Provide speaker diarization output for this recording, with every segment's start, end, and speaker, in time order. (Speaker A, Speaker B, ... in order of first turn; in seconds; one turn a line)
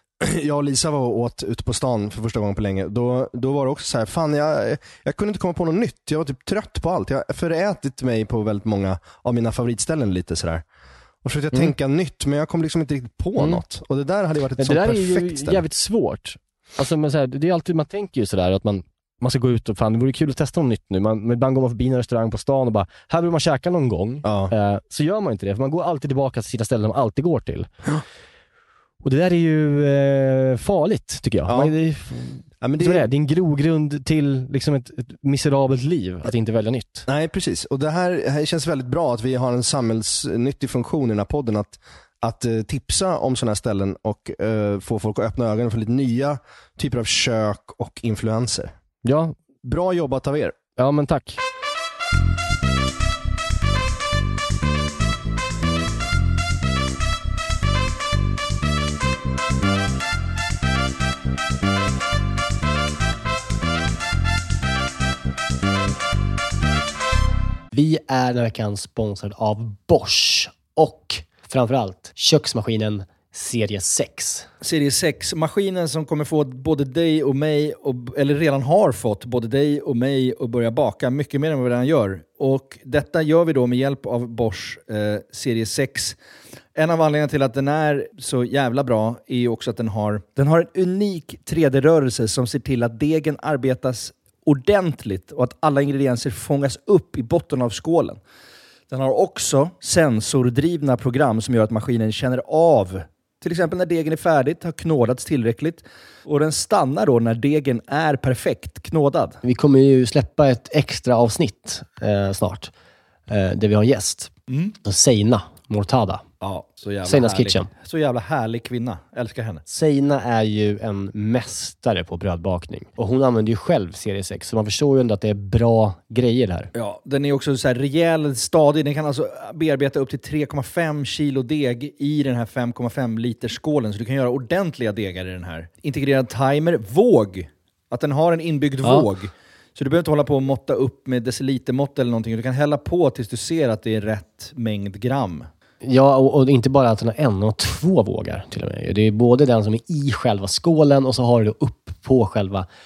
Speaker A: 0.2-10.6
Speaker A: 11.2-15.6
Speaker B: 14.6-27.7
Speaker A: 24.2-24.5
Speaker B: 29.0-37.1
Speaker A: 31.5-31.8
Speaker A: 32.6-33.1
Speaker A: 37.1-48.7
Speaker B: 49.0-49.4
Speaker A: 49.6-50.6
Speaker B: 50.8-51.4
Speaker C: 67.8-74.5
Speaker D: 74.6-86.2
Speaker D: 86.8-98.2
Speaker D: 98.9-109.4
Speaker C: 109.5-112.7
Speaker C: 113.3-114.3
Speaker D: 114.5-114.8
Speaker C: 114.9-116.2
Speaker D: 116.4-119.6
Speaker C: 117.1-117.7
Speaker C: 119.8-126.7
Speaker D: 126.8-145.5
Speaker C: 145.8-152.7